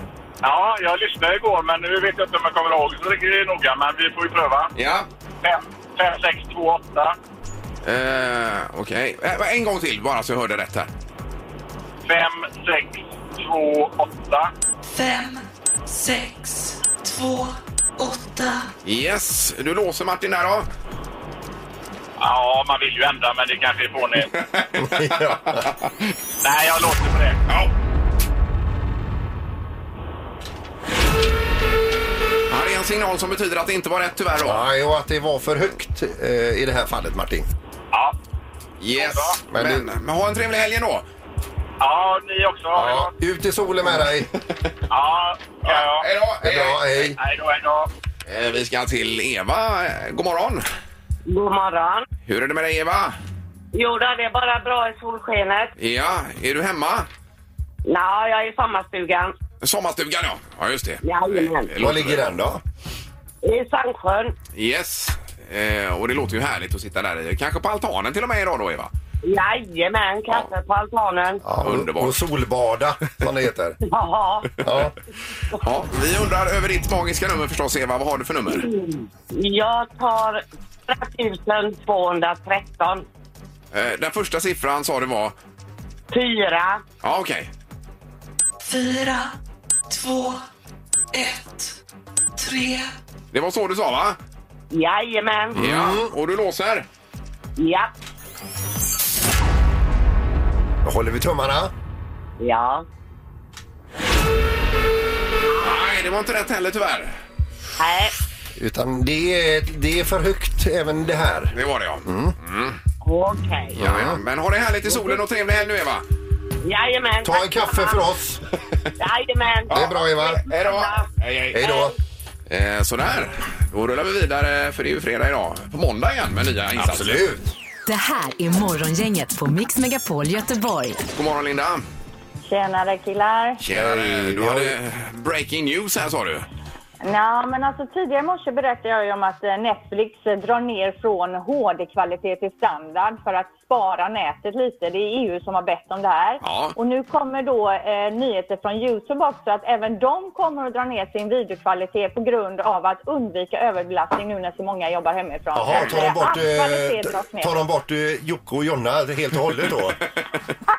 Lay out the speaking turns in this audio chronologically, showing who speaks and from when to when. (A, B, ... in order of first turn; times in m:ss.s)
0:00.4-0:04.7 A
0:04.8-0:05.1 B
0:05.4-0:07.2 A
0:07.8-0:10.9 B
0:12.0-0:14.5 A
0:14.9-0:18.7 C
0:18.8-0:20.7 B
0:22.2-0:24.3 A
0:24.3-0:24.7 B
0:24.8-0:25.7 D
0:26.4-0:27.4 A
0:32.5-0:34.6 B
0:34.4-0:37.5 D
0:38.8-0:41.0 B
0:39.0-0:39.4 A
0:39.5-0:39.9 D
0:41.8-0:43.1 A
0:42.7-0:44.3 D
0:44.9-0:47.9 A
0:45.6-0:46.7 B
0:46.4-0:47.2 D
0:48.2-0:50.6 B
0:51.3-0:52.0 E
0:52.2-0:53.1 B
0:53.7-0:55.7 E
0:55.8-0:57.1 B
0:57.8-0:59.3 E
0:59.6-1:02.3 B
1:01.0-1:01.7 E
1:01.8-1:02.6 D
1:03.4-1:04.3 E
1:04.5-1:08.9 B
1:09.2-1:11.4 E
1:11.4-1:13.8 D
1:11.6-1:12.2 B
1:13.8-1:14.5 E
1:14.6-1:14.9 D
1:15.6-1:18.7 B
1:18.5-1:23.0 E
1:23.7-1:25.3 B
1:26.1-1:26.8 E
1:27.0-1:27.5 B
1:28.6-1:29.3 C
1:29.9-1:30.4 C
1:31.1-1:31.8 C
1:32.4-1:32.9 C
1:33.3-1:34.2 B
1:34.7-1:35.6 E
1:35.5-1:36.1 D
1:35.5-1:36.9 B
1:37.6-1:37.9 E
1:40.8-1:41.7 D
1:42.4-1:42.8 E
1:45.6-1:47.2 B
1:47.8-1:48.1 E
1:48.6-1:52.3 D
1:51.5-1:52.8 B
1:53.0-1:53.8 E
1:53.7-1:54.2 D
1:53.8-1:56.0 B
1:54.9-1:55.2 E
1:56.6-1:58.0 E
1:57.2-1:58.4 D
1:59.0-2:01.1 E
1:59.7-2:00.5 D
2:00.4-2:01.6 B
2:01.5-2:01.9 D
2:01.6-2:01.9 E
2:02.5-2:07.2 B
2:06.7-2:07.4 D
2:07.8-2:11.0 F
2:11.1-2:11.8 B
2:12.4-2:13.6 G
2:13.6-2:16.4 B
2:13.7-2:14.8 D
2:17.0-2:37.5 G
2:26.4-2:26.8 B
2:35.5-2:40.1 D